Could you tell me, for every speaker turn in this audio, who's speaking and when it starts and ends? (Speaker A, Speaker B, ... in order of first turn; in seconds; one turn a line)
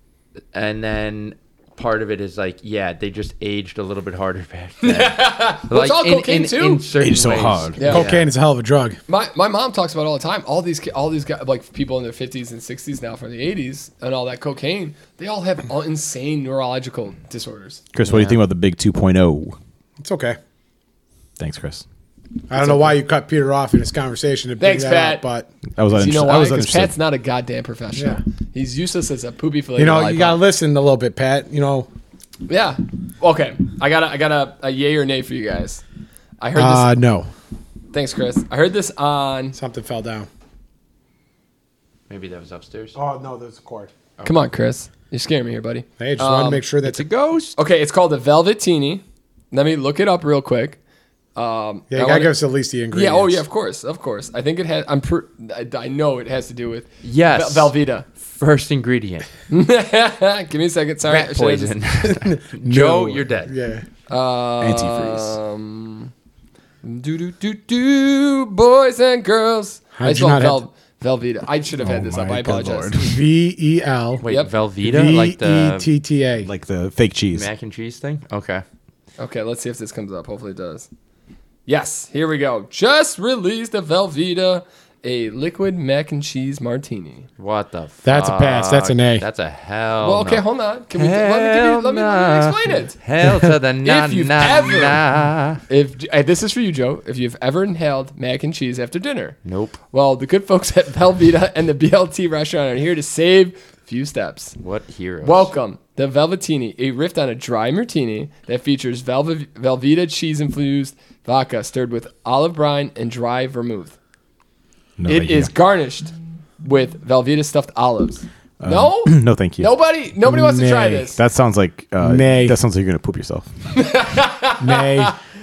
Speaker A: 0.5-8.3
Speaker B: 4.8-6.8
Speaker C: 7.0-7.8
Speaker B: 7.8-8.1
Speaker D: 7.8-9.0
Speaker B: 9.1-17.8
Speaker C: 17.9-19.6
Speaker A: 18.0-18.4
Speaker D: 20.0-20.4
Speaker C: 21.4-21.8
Speaker D: 22.5-25.5
Speaker B: 22.5-23.0
Speaker B: 24.6-25.2
Speaker C: 25.8-26.9
Speaker B: 25.9-30.4
Speaker D: 27.9-28.2
Speaker D: 29.8-31.9
Speaker B: 32.5-35.8
Speaker B: 36.4-36.9
Speaker D: 36.5-37.3
Speaker B: 37.9-39.6
Speaker D: 39.5-40.3
Speaker A: 42.1-43.0
Speaker D: 42.9-43.9
Speaker B: 44.2-46.6
Speaker D: 46.0-47.0
Speaker A: 46.8-47.6
Speaker B: 47.6-50.8
Speaker B: 51.3-52.3
Speaker D: 51.9-53.4
Speaker B: 52.9-58.1
Speaker A: 57.0-59.3
Speaker B: 59.5-61.8
Speaker A: 61.0-63.5
Speaker D: 62.1-63.8
Speaker B: 64.1-66.1
Speaker C: 64.6-65.3
Speaker B: 66.8-73.1
Speaker D: 70.0-70.6
Speaker C: 71.8-73.1
Speaker D: 72.9-74.2
Speaker A: 74.2-75.9
Speaker B: 74.2-74.5
Speaker D: 74.8-76.5
Speaker C: 76.4-77.5
Speaker A: 77.3-78.6
Speaker B: 79.2-80.9
Speaker B: 81.7-87.3
Speaker A: 87.4-95.6
Speaker D: 88.0-89.2
Speaker B: 90.0-93.0
Speaker B: 93.8-95.0
Speaker B: 95.7-104.6
Speaker A: 99.4-99.8
Speaker A: 104.6-105.5
Speaker B: 105.2-114.0
Speaker C: 115.0-115.5
Speaker B: 115.1-121.2
Speaker C: 118.6-119.7
Speaker D: 120.2-121.1
Speaker C: 121.1-123.5
Speaker D: 122.0-122.6
Speaker B: 123.7-125.2
Speaker D: 124.6-125.1